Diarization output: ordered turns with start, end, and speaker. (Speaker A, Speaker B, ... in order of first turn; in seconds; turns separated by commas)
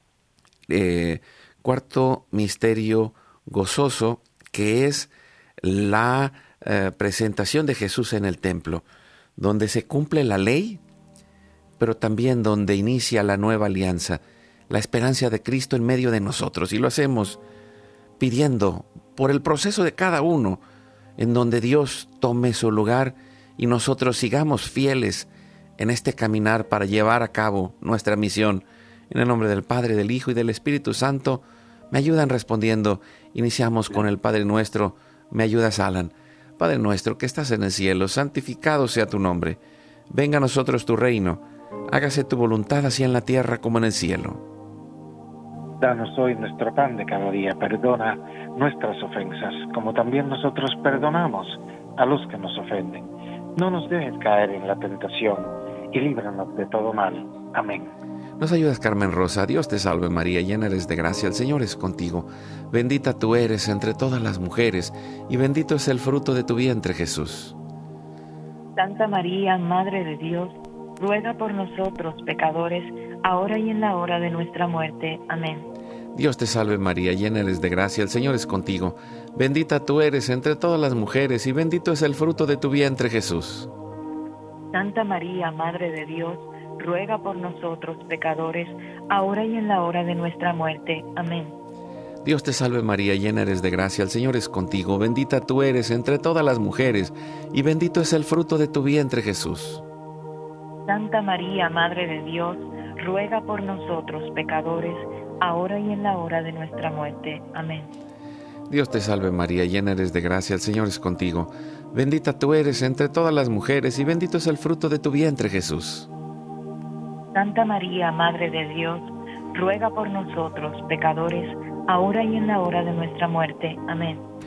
Speaker A: 0.7-5.1, Speaker A: 5.6-8.8, Speaker A: 9.4-10.8, Speaker A: 11.8-17.4, Speaker A: 18.2-20.6, Speaker A: 21.2-39.6, Speaker A: 40.1-44.4, Speaker B: 45.8-57.9, Speaker A: 58.4-67.5, Speaker C: 68.8-75.7, Speaker A: 76.1-83.7, Speaker C: 84.7-91.5, Speaker A: 92.2-99.8, Speaker C: 100.9-107.9, Speaker A: 108.7-116.1, Speaker C: 117.3-124.2